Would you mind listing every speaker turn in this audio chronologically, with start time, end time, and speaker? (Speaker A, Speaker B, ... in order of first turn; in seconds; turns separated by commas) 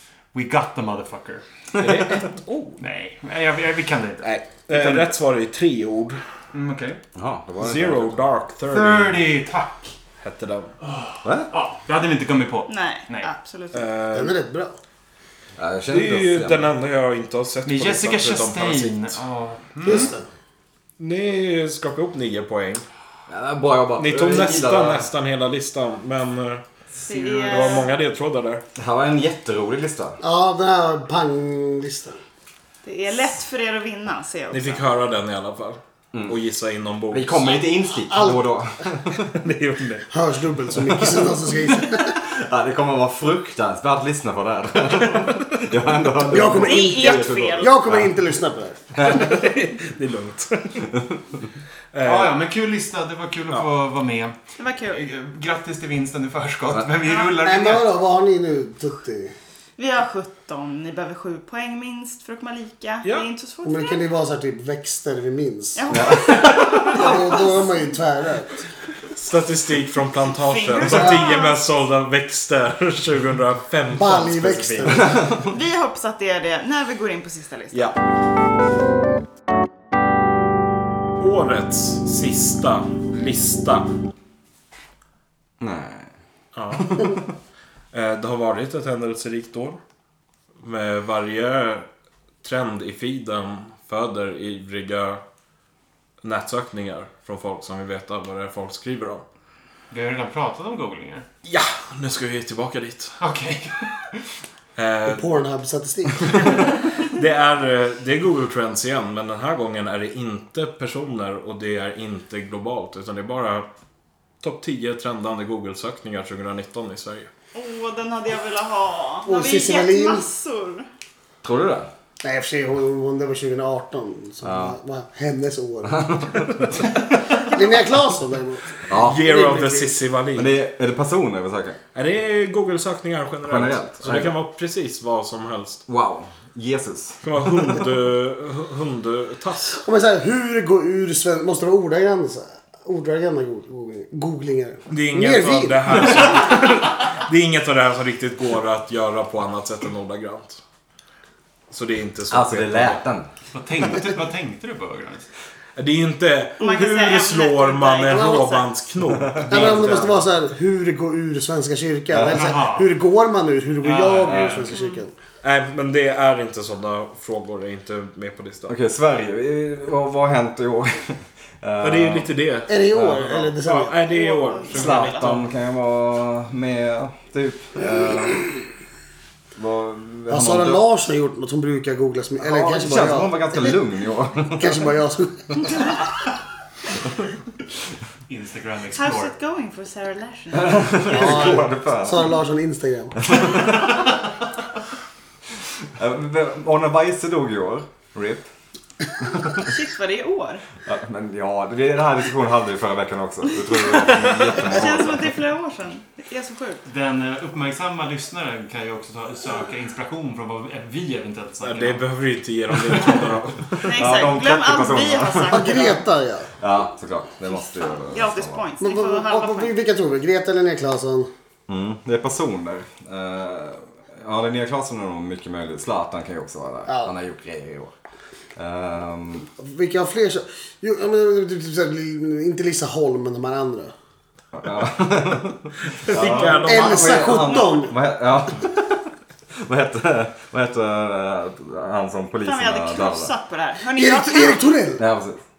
Speaker A: 0.3-1.4, Speaker B: 1.8-2.8, Speaker A: 2.8-5.1, Speaker B: 4.2-6.2, Speaker A: 6.5-7.0, Speaker C: 7.1-8.1, Speaker B: 7.6-9.2, Speaker A: 8.7-9.9, Speaker B: 10.2-10.7, Speaker A: 10.8-13.3, Speaker C: 11.2-11.5, Speaker D: 12.7-13.9, Speaker B: 13.7-14.3, Speaker E: 14.1-14.8, Speaker C: 15.6-16.7, Speaker B: 15.9-19.1, Speaker A: 17.6-20.1, Speaker E: 19.8-20.2, Speaker B: 21.0-22.8, Speaker C: 23.3-25.1, Speaker B: 24.0-28.6, Speaker D: 27.0-27.9, Speaker C: 28.8-30.2, Speaker E: 30.2-32.2, Speaker D: 32.8-34.8, Speaker B: 34.5-37.6, Speaker C: 37.1-39.3, Speaker E: 38.1-38.4, Speaker B: 39.2-40.1, Speaker E: 40.1-42.1, Speaker C: 41.9-48.1, Speaker E: 46.3-49.1, Speaker B: 46.3-47.2, Speaker D: 46.5-47.7, Speaker C: 49.0-49.2, Speaker B: 49.0-50.9, Speaker B: 51.9-52.3, Speaker A: 52.0-54.4, Speaker D: 54.6-55.0, Speaker A: 54.9-57.9, Speaker D: 57.0-57.3, Speaker E: 57.4-59.3, Speaker D: 59.8-64.0, Speaker E: 63.6-65.9, Speaker D: 65.8-68.0, Speaker C: 65.9-66.9, Speaker E: 66.7-68.6, Speaker B: 69.1-75.2, Speaker D: 70.4-71.6, Speaker E: 73.9-75.3, Speaker C: 75.0-75.5, Speaker D: 75.4-78.0, Speaker B: 81.2-83.9, Speaker C: 85.6-86.1, Speaker B: 86.5-87.2, Speaker C: 86.8-87.3, Speaker B: 87.9-89.8, Speaker B: 90.6-91.8, Speaker B: 92.4-95.2, Speaker B: 96.2-99.2, Speaker A: 99.9-101.2, Speaker B: 101.4-103.2, Speaker A: 103.2-104.2, Speaker B: 104.8-105.3, Speaker E: 105.1-106.5, Speaker B: 106.3-113.7, Speaker B: 114.4-117.3, Speaker D: 117.5-120.8, Speaker E: 119.2-120.2, Speaker C: 121.4-121.9, Speaker E: 122.2-126.4, Speaker C: 124.4-124.8, Speaker C: 125.8-126.8, Speaker E: 127.3-130.0, Speaker D: 127.4-127.9, Speaker C: 128.9-129.2, Speaker B: 128.9-130.5, Speaker C: 130.3-131.8, Speaker B: 131.9-135.8, Speaker C: 133.4-134.3, Speaker C: 135.9-137.8, Speaker B: 137.2-139.8, Speaker E: 139.8-146.3, Speaker B: 144.9-150.6, Speaker B: 151.7-153.0, Speaker C: 152.3-153.3, Speaker A: 153.5-155.3, Speaker B: 155.8-160.2, Speaker D: 156.6-158.7, Speaker C: 159.2-159.6, Speaker E: 159.5-165.1, Speaker C: 162.1-162.5, Speaker A: 162.2-162.9, Speaker A: 163.8-164.8, Speaker D: 164.7-165.0, Speaker B: 165.4-168.7, Speaker C: 168.7-172.3, Speaker B: 171.8-175.5, Speaker E: 172.7-174.0, Speaker C: 172.9-173.3, Speaker D: 174.1-175.3, Speaker C: 174.7-178.5, Speaker C: 179.6-180.8, Speaker E: 180.3-183.7, Speaker C: 182.4-184.9, Speaker E: 184.6-186.0, Speaker A: 188.3-189.3, Speaker D: 188.9-191.2, Speaker C: 190.5-192.3, Speaker E: 191.0-193.6, Speaker C: 193.2-194.1, Speaker C: 195.9-198.5, Speaker C: 199.3-199.7, Speaker D: 199.6-200.6, Speaker C: 200.8-205.3, Speaker D: 204.5-206.8, Speaker A: 206.8-212.1, Speaker B: 211.6-213.9, Speaker A: 212.8-213.3, Speaker C: 213.8-215.7, Speaker D: 213.8-216.0, Speaker E: 215.5-216.5, Speaker C: 216.6-218.7, Speaker D: 217.5-219.7, Speaker E: 218.8-221.3, Speaker C: 221.7-227.9, Speaker E: 226.9-227.1, Speaker C: 228.6-229.5, Speaker E: 229.5-233.9, Speaker C: 234.5-239.1, Speaker B: 236.0-237.4, Speaker E: 236.3-237.9, Speaker D: 237.4-237.9, Speaker C: 239.6-243.3, Speaker D: 242.4-244.8, Speaker E: 243.9-245.0, Speaker C: 245.0-245.4